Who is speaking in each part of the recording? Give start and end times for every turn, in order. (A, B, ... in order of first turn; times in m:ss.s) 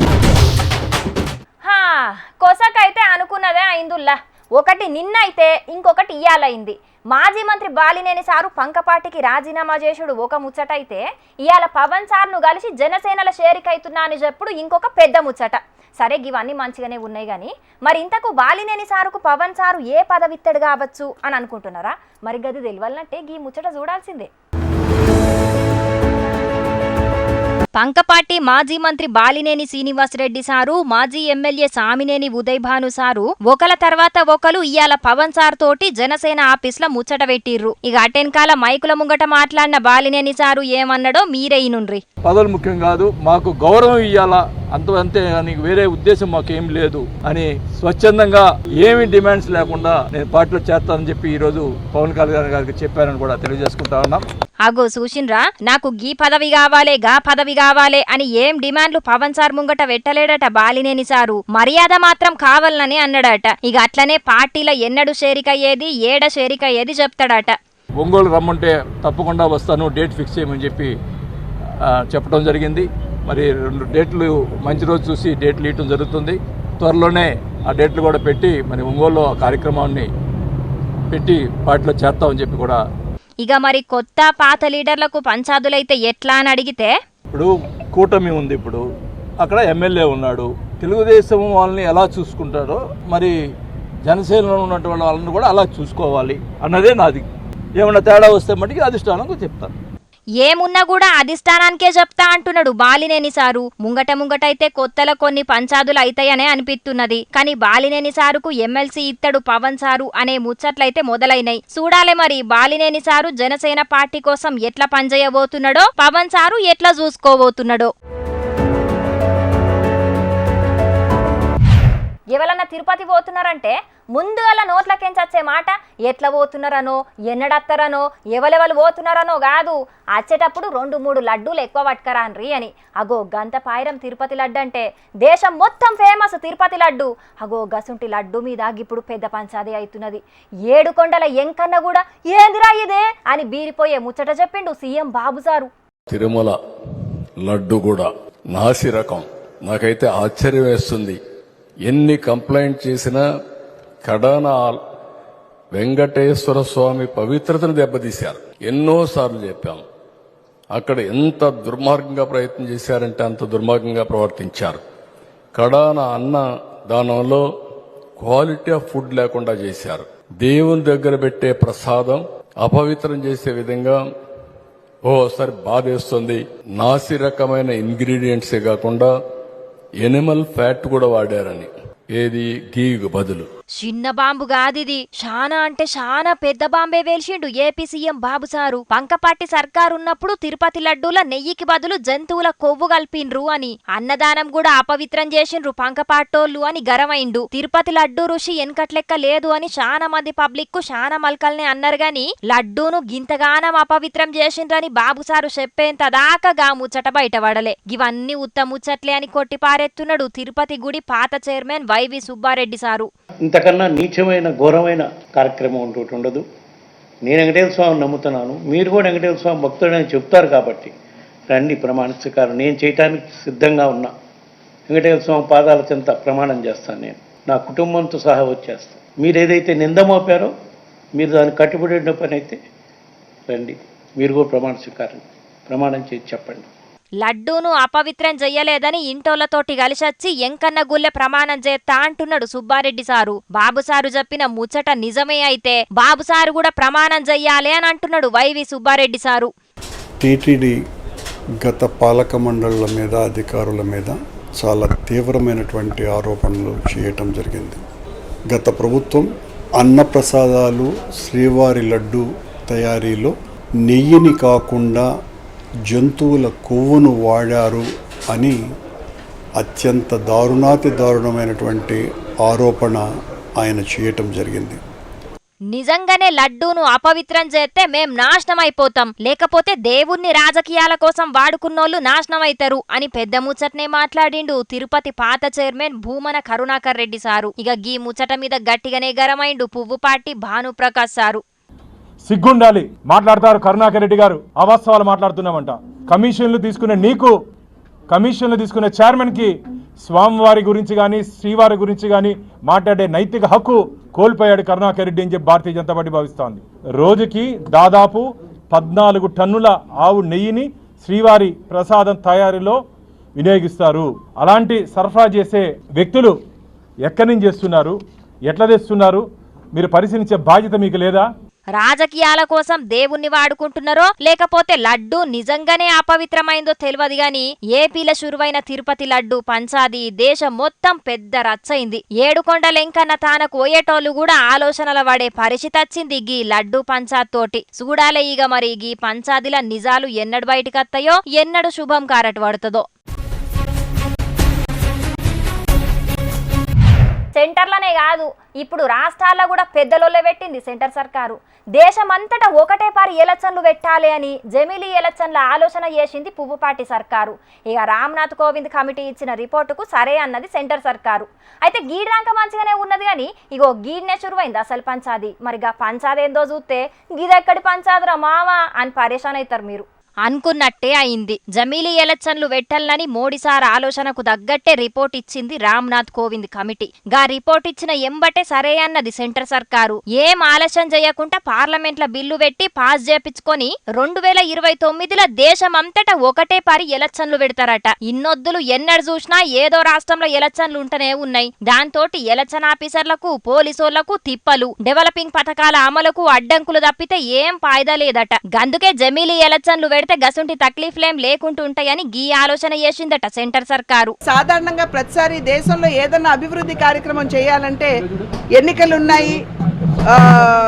0:01.6-0:24.3 A
0:27.8-0:42.0 A
0:42.2-0:54.2 B
0:54.6-1:07.6 A
1:08.0-1:10.9 B
1:11.8-1:20.1 B
1:21.1-1:22.8 B
1:23.4-1:27.0 A
1:27.3-1:28.8 B
1:29.4-1:33.4 B
1:34.0-1:39.7 B
1:40.4-1:57.9 A
2:02.3-2:25.7 A
2:26.1-2:26.6 C
2:27.4-2:31.2 C
2:31.8-2:33.2 C
2:34.0-2:34.8 C
2:35.7-2:39.8 C
2:40.7-2:44.8 C
2:45.5-2:47.4 C
2:48.2-2:54.0 C
2:55.0-2:59.1 C
3:00.0-3:03.5 C
3:03.8-3:33.1 A
3:33.5-3:36.4 D
3:37.3-3:40.9 D
3:41.5-3:44.1 D
3:44.9-3:50.5 D
3:51.2-3:52.6 D
3:53.5-3:56.6 D
3:57.2-4:09.5 A
4:10.2-4:10.8 E
4:11.6-4:17.8 E
4:18.5-4:19.3 E
4:19.8-4:25.1 E
4:25.9-4:28.6 E
4:29.6-4:33.0 E
4:33.6-4:34.8 E
4:35.7-4:51.4 A
4:52.2-4:57.3 F
4:58.1-5:12.8 F
5:13.4-5:16.3 F
5:17.1-5:18.0 F
5:18.5-5:21.2 F
5:21.8-5:42.9 A
5:47.4-6:44.2 A
6:44.3-6:48.0 G
6:48.6-6:49.4 G